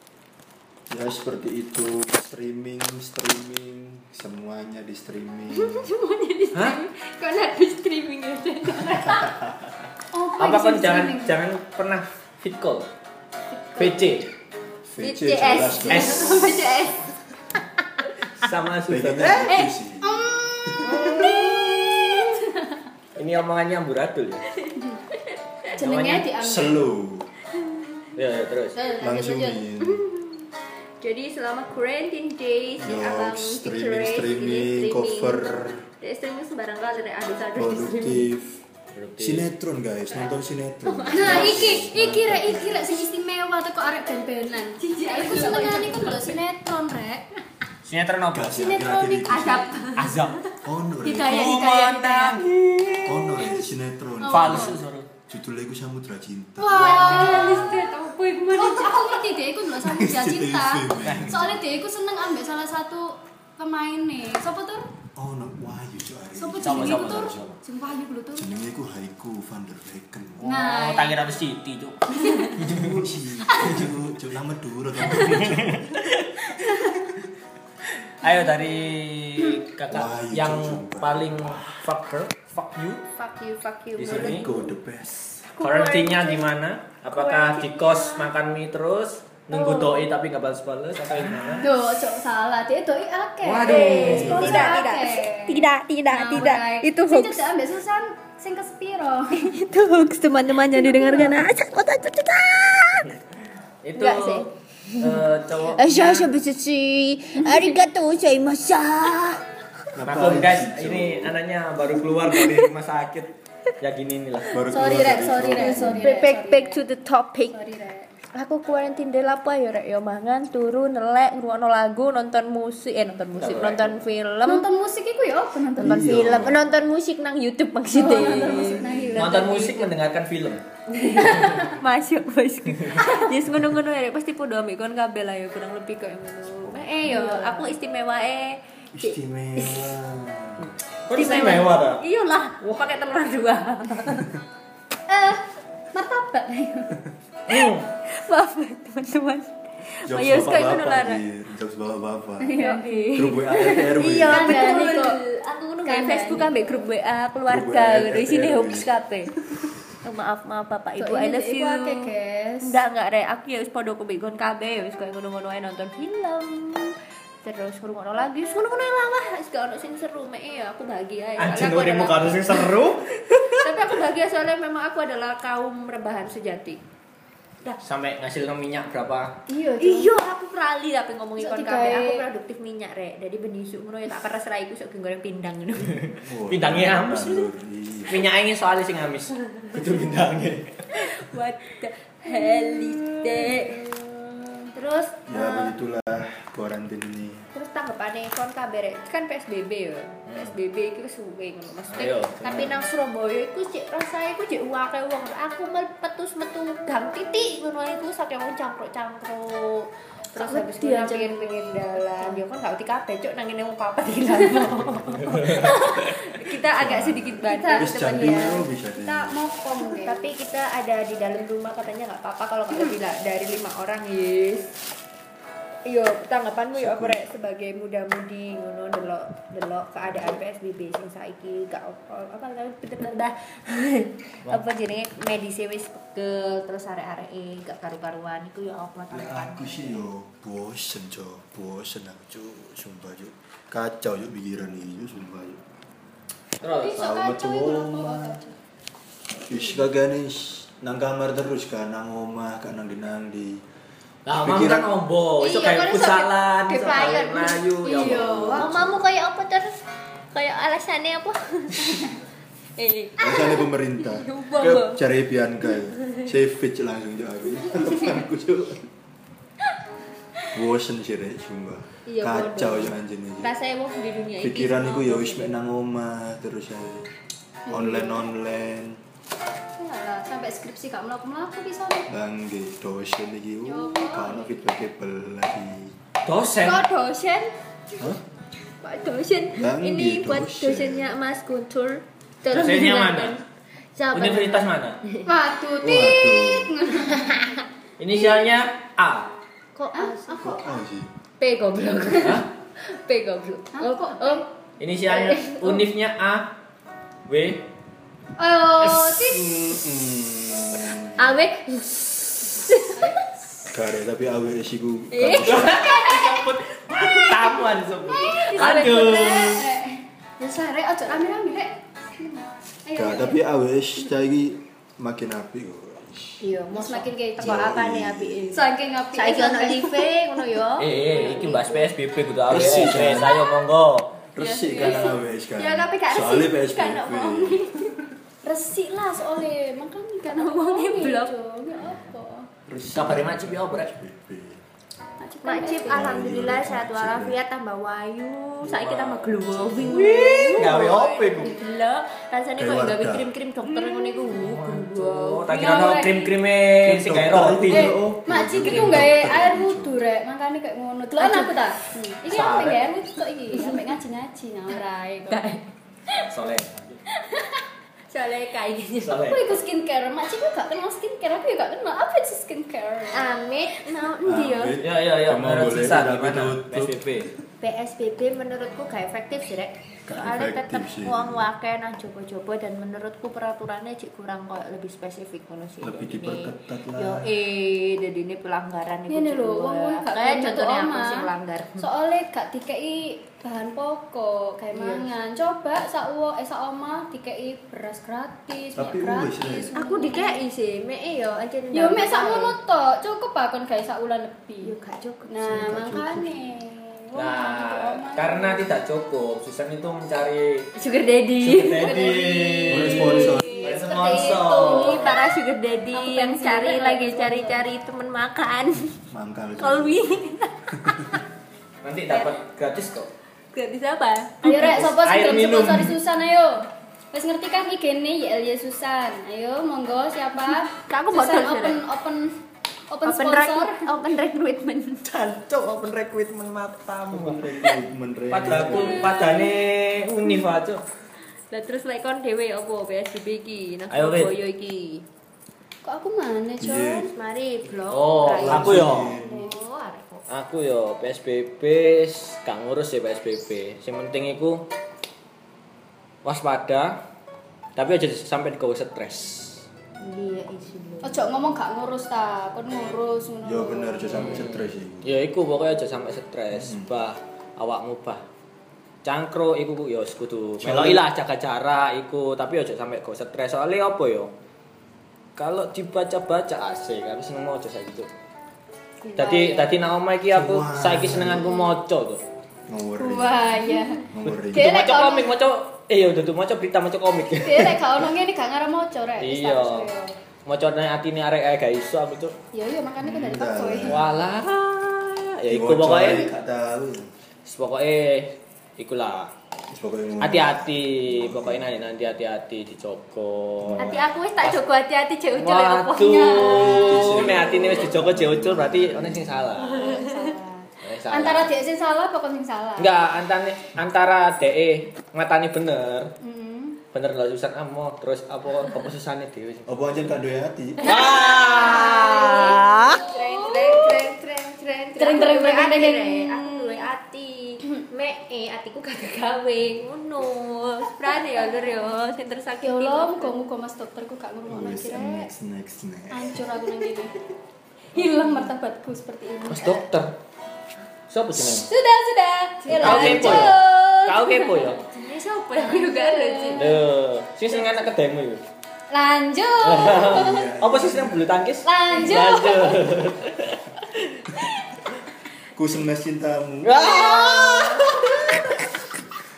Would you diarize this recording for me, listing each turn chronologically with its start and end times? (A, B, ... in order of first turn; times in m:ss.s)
0:00.9-0:05.9 A
0:05.5-0:09.4 B
0:06.5-0:06.8 C
0:09.1-0:09.5 A
0:10.1-0:11.4 D
0:10.4-0:12.9 C
0:13.5-0:14.0 B
0:13.8-0:14.3 C
0:14.8-0:16.6 A
0:15.0-0:17.1 B
0:15.9-0:16.4 C
0:18.3-0:19.6 C
0:18.9-0:21.4 A
0:19.5-0:22.8 D
0:20.9-0:22.4 B
0:23.2-0:24.5 C
0:24.6-0:25.7 B
0:25.7-0:26.9 D
0:25.8-0:26.3 C
0:26.4-0:27.3 A
0:27.5-0:28.1 B
0:28.1-0:28.8 C
0:28.7-0:29.6 D
0:29.0-0:30.0 A
0:29.8-0:30.5 B
0:31.0-0:38.3 B
0:32.8-0:35.8 A
0:37.5-0:38.6 A
0:38.9-0:39.4 C
0:39.2-0:43.0 A
0:40.8-0:41.8 B
0:41.1-0:47.2 D
0:44.8-0:46.4 B
0:47.8-0:48.6 C
0:48.3-0:49.8 A
0:48.5-0:49.7 D
0:49.2-0:50.5 B
0:49.9-0:50.4 C
0:50.6-0:51.5 A
0:51.0-0:52.4 B
0:51.1-0:53.6 C
0:53.0-0:54.8 A
0:54.2-0:54.8 D
0:54.3-0:55.1 C
0:55.3-0:57.8 A
0:56.6-0:59.4 B
0:56.6-0:57.8 D
0:58.5-1:04.8 D
0:59.8-1:01.6 A
1:01.0-1:01.5 C
1:05.2-1:07.6 A
1:06.4-1:08.5 D
1:06.6-1:07.5 C
1:08.3-1:10.6 A
1:10.4-1:11.2 D
1:10.4-1:13.0 C
1:12.1-1:12.6 D
1:12.6-1:16.0 A
1:13.5-1:13.8 D
1:15.0-1:17.0 C
1:18.2-1:23.0 C
1:19.9-1:21.8 A
1:23.1-1:24.7 B
1:24.0-1:24.4 C
1:24.0-1:25.4 A
1:25.5-1:26.5 B
1:25.6-1:31.7 C
1:27.1-1:28.3 B
1:29.5-1:30.1 B
1:31.6-1:39.5 D
1:33.4-1:34.5 C
1:33.6-1:37.5 B
1:34.0-1:34.7 A
1:39.3-1:43.2 B
1:40.9-1:41.3 D
1:43.8-1:46.3 C
1:44.0-1:49.4 B
1:49.9-1:51.4 A
1:50.0-1:54.6 C
1:52.3-1:52.6 B
1:54.5-1:56.1 A
1:54.7-1:56.8 D
1:55.4-1:57.6 B
1:57.5-1:58.1 D
1:58.3-2:04.6 B
2:03.4-2:03.9 C
2:04.4-2:06.1 D
2:05.8-2:06.7 A
2:05.8-2:09.8 B
2:07.9-2:09.8 D
2:08.5-2:09.3 A
2:09.1-2:10.6 C
2:10.9-2:19.9 B
2:11.2-2:11.7 C
2:12.8-2:13.1 C
2:16.6-2:17.2 A
2:17.0-2:17.7 D
2:18.9-2:20.7 A
2:21.1-2:22.0 C
2:21.1-2:24.3 B
2:25.1-2:27.0 D
2:27.5-2:27.8 C
2:27.5-2:31.2 B
2:30.0-2:32.6 A
2:32.4-2:35.2 D
2:32.5-2:39.3 B
2:33.1-2:34.8 A
2:35.8-2:36.8 D
2:37.5-2:38.9 A
2:40.0-2:56.8 B
2:41.0-2:42.8 D
2:51.4-2:53.7 C
2:57.8-2:59.4 C
2:59.5-3:00.1 D
2:59.8-3:06.1 B
3:01.4-3:02.2 D
3:05.9-3:07.5 C
3:06.0-3:08.3 A
3:08.1-3:10.9 C
3:10.9-3:15.7 B
3:12.8-3:13.7 C
3:15.3-3:17.5 A
3:17.5-3:38.6 B
3:20.3-3:20.5 C
3:21.9-3:22.8 C
3:22.4-3:22.7 A
3:30.4-3:32.4 D
3:35.2-3:35.9 C
3:36.8-3:39.4 A
3:37.5-3:38.1 D
3:39.0-3:40.3 D
3:39.8-3:44.8 B
3:45.8-4:00.1 B
3:46.7-3:47.3 A
3:59.1-4:05.6 A
4:06.6-4:07.0 C
4:06.6-4:08.5 D
4:06.9-4:08.4 A
4:09.5-4:13.6 A
4:14.2-4:18.9 C
4:14.4-4:14.9 A
4:15.4-4:17.6 B
4:17.8-4:18.7 D
4:18.2-4:19.0 A
4:18.5-4:19.8 B
4:20.3-4:22.2 B
4:22.8-4:25.0 B
4:23.2-4:28.9 A
4:27.7-4:28.2 B
4:30.5-4:33.5 A
4:32.1-4:35.6 B
4:34.4-4:37.1 A
4:37.7-4:39.0 A
4:37.7-4:38.0 D
4:39.8-4:42.1 D
4:42.1-4:46.0 A
4:43.6-4:44.3 D
4:44.0-4:44.3 B
4:46.2-4:46.8 C
4:46.6-4:47.5 B
4:48.8-4:53.4 B
4:49.5-4:51.1 A
4:52.5-4:53.4 C
4:54.0-4:55.3 B
4:54.1-4:55.0 C
4:55.2-4:57.3 D
4:55.8-4:56.7 A
4:57.1-4:57.6 B
4:58.0-4:59.3 C
4:59.7-5:00.7 B
4:59.9-5:00.5 D
5:00.4-5:01.1 A
5:01.4-5:04.5 B
5:02.2-5:02.5 C
5:03.7-5:04.4 D
5:04.8-5:06.5 C
5:05.1-5:05.9 B
5:07.3-5:07.7 C
5:08.4-5:09.5 D
5:08.8-5:09.4 C
5:09.2-5:11.4 A
5:11.2-5:13.2 B
5:12.9-5:13.3 D
5:13.7-5:16.0 A
5:15.1-5:17.7 B
5:15.4-5:19.7 C
5:18.1-5:23.4 D
5:18.3-5:19.1 B
5:22.9-5:26.5 A
5:26.4-5:31.9 B
5:26.7-5:27.7 D
5:27.4-5:28.6 A
5:28.5-5:30.1 D
5:30.8-5:34.2 C
5:32.4-5:33.4 A
5:34.3-5:37.9 A
5:34.4-5:37.9 B
5:34.8-5:35.1 D
5:38.4-5:42.5 D
5:40.3-5:41.5 B
5:42.6-5:44.6 A
5:42.9-5:43.9 C
5:45.2-5:46.0 D
5:45.4-5:56.0 B
5:45.8-5:47.4 A
5:48.6-5:51.6 C
5:52.6-5:53.3 A
5:54.0-5:58.0 C
5:55.5-5:56.3 D
5:56.8-6:00.0 A
5:57.7-6:05.4 D
6:01.2-6:01.6 B
6:02.3-6:03.0 C
6:03.5-6:03.9 B
6:04.7-6:06.2 B
6:06.1-6:07.0 C
6:07.3-6:07.6 D
6:08.1-6:09.3 B
6:09.0-6:09.6 C
6:09.2-6:13.3 D
6:13.1-6:14.8 B
6:14.2-6:17.4 A
6:14.8-6:17.3 C
6:17.6-6:31.9 B
6:20.1-6:21.5 A
6:25.8-6:27.3 A
6:29.1-6:40.4 D
6:34.7-6:35.1 B
6:38.7-6:39.7 A
6:39.7-6:42.5 B
6:41.7-6:44.7 D
6:44.6-6:45.5 B
6:45.3-6:48.8 D
6:45.4-6:46.6 A
6:47.2-6:50.7 C
6:50.8-6:59.0 B
6:51.4-6:55.2 C
6:51.8-6:52.2 D
6:52.7-6:53.7 A
6:54.5-6:55.1 D
6:55.9-6:57.6 D
6:59.1-7:00.2 A
6:59.6-7:01.2 B
7:00.8-7:01.2 A
7:01.8-7:03.1 C
7:03.5-7:04.9 B
7:04.4-7:12.3 D
7:04.4-7:05.9 C
7:10.4-7:11.8 B
7:12.9-7:13.9 D
7:13.0-7:15.1 B
7:15.1-7:17.7 C
7:17.1-7:19.2 A
7:18.3-7:20.8 C
7:18.8-7:19.5 B
7:21.5-7:25.0 B
7:23.9-7:24.3 C
7:25.8-7:27.1 D
7:26.6-7:27.1 A
7:27.0-7:30.2 B
7:27.9-7:29.1 C
7:28.2-7:29.5 A
7:30.3-7:34.6 C
7:36.2-7:37.0 C
7:37.8-7:39.6 C
7:40.0-7:41.3 B
7:41.0-7:44.3 D
7:43.4-7:45.2 A
7:44.1-7:48.2 C
7:46.5-7:46.9 A
7:49.0-7:54.3 C
7:50.6-7:51.0 A
7:55.4-7:58.1 C
7:59.0-7:59.7 D
7:59.2-8:02.2 C
8:00.3-8:01.6 A
8:02.7-8:03.5 A
8:03.0-8:05.3 D
8:03.6-8:04.0 B
8:04.1-8:04.7 A
8:04.2-8:08.0 C
8:07.4-8:10.1 D
8:09.2-8:09.9 C
8:10.4-8:12.3 C
8:12.5-8:14.0 D
8:13.0-8:14.1 A
8:13.9-8:16.3 C
8:15.5-8:17.1 A
8:17.4-8:19.3 C
8:19.7-8:21.7 A
8:20.2-8:24.6 C
8:23.6-8:24.1 A
8:23.8-8:27.3 B
8:25.3-8:29.9 C
8:26.3-8:29.6 A
8:29.6-8:30.4 B
8:29.7-8:33.0 D
8:30.8-8:31.5 C
8:32.8-8:36.1 C
8:36.2-8:36.8 D
8:36.9-8:39.7 C
8:39.7-8:41.3 A
8:40.8-8:43.0 C
8:40.8-8:43.8 D
8:40.9-8:53.3 B
8:45.0-8:46.9 D
8:52.6-8:55.3 D
8:54.5-8:56.5 A
8:56.1-8:57.2 D
8:57.9-8:59.8 D
8:58.0-8:58.3 B
8:59.5-9:00.2 C
9:01.1-9:01.7 C
9:01.4-9:04.7 D
9:02.6-9:03.6 B
9:02.8-9:04.8 C
9:04.7-9:06.8 B
9:05.6-9:06.8 D
9:06.5-9:08.4 C
9:08.9-9:10.5 D
9:09.6-9:14.5 C
9:09.8-9:11.4 A
9:11.6-9:12.9 D
9:15.5-9:17.9 A
9:16.6-9:18.6 C